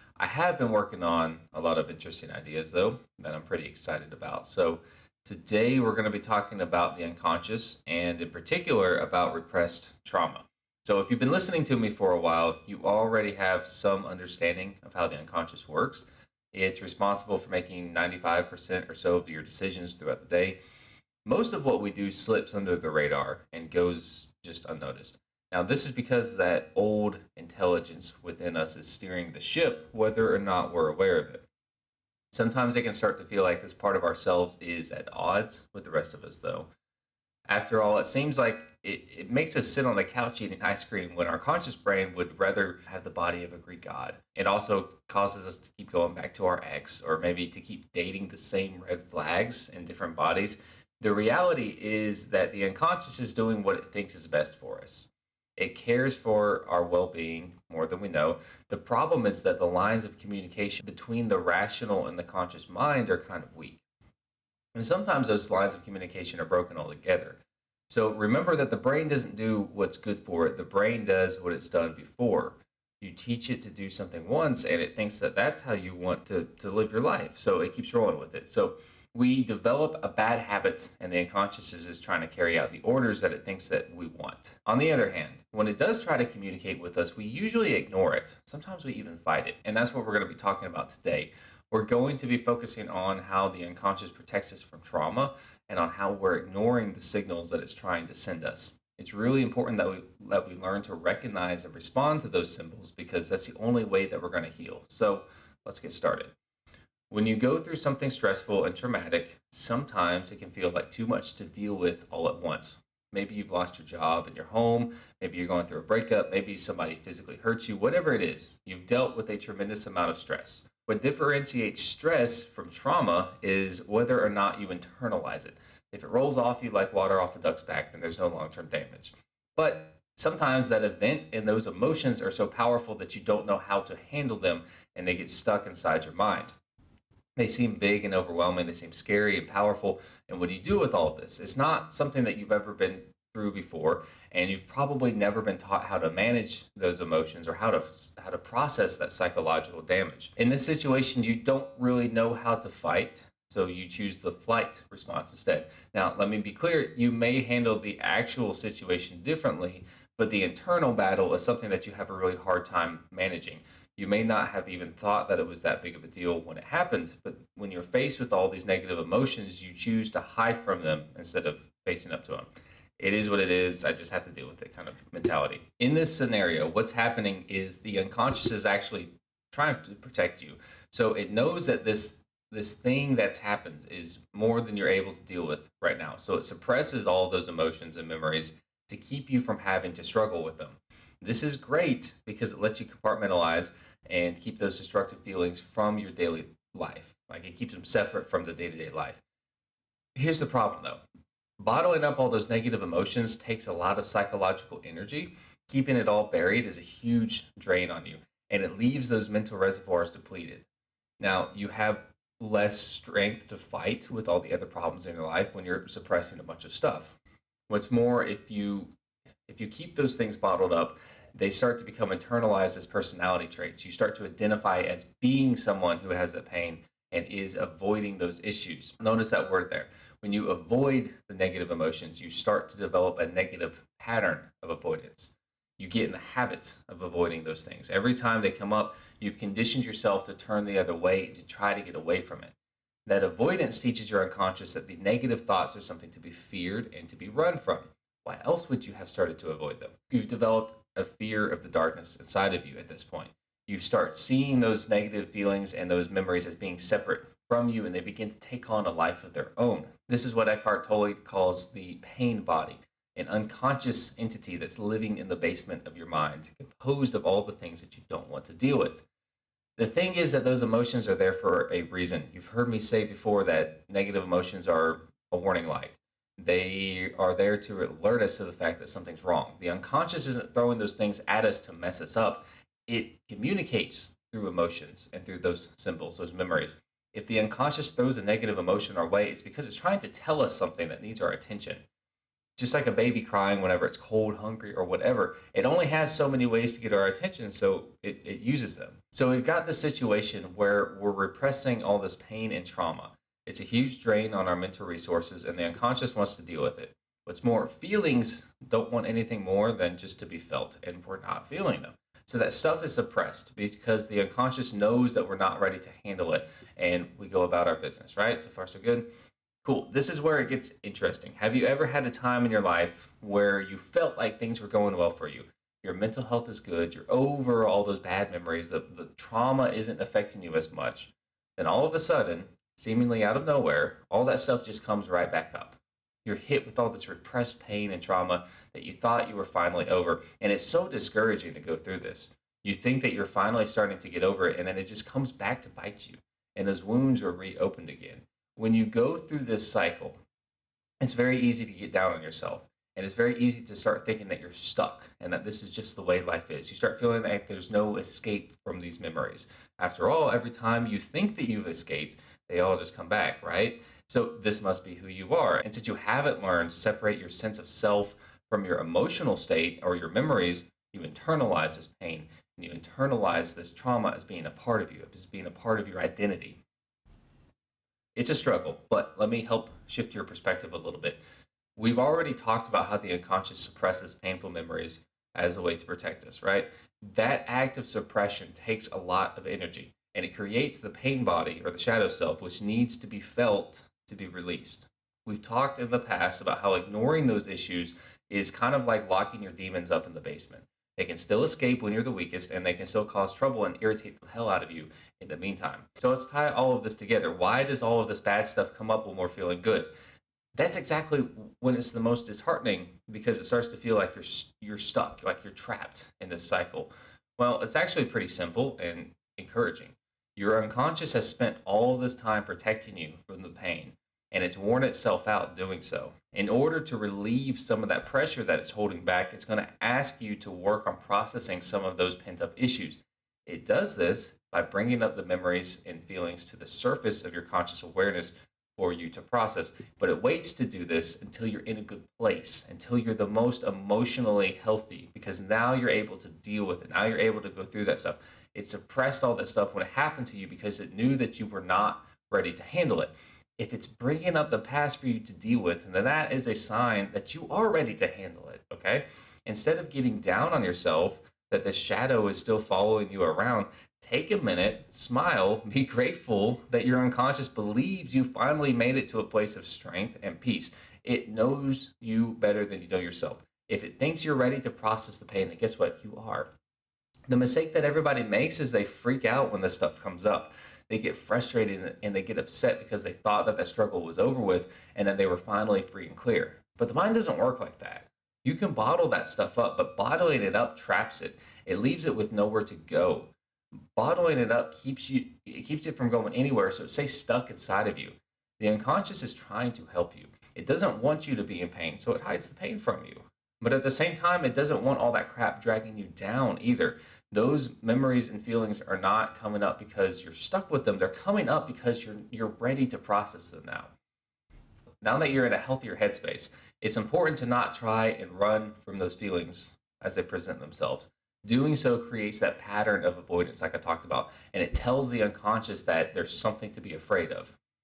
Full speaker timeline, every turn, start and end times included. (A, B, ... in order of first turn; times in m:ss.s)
0:00.2-0:20.6 A
0:21.2-0:31.4 A
0:32.3-0:36.7 A
0:37.5-1:03.8 A
1:04.7-1:46.3 A
1:47.1-2:16.5 A
2:17.4-2:52.5 A
2:53.0-3:19.2 A
3:20.2-3:21.0 A
3:21.6-3:30.7 A
3:31.2-3:37.2 A
3:37.7-3:38.9 A
3:39.5-4:02.5 A
4:03.1-4:29.0 A
4:29.8-4:51.8 A
4:52.6-5:19.1 A
5:19.6-5:50.2 A
5:51.0-6:16.6 A
6:18.2-6:21.2 A
6:21.8-6:49.9 A
6:50.6-7:56.5 A
7:57.3-8:13.3 A
8:14.0-8:33.9 A
8:35.0-8:47.5 A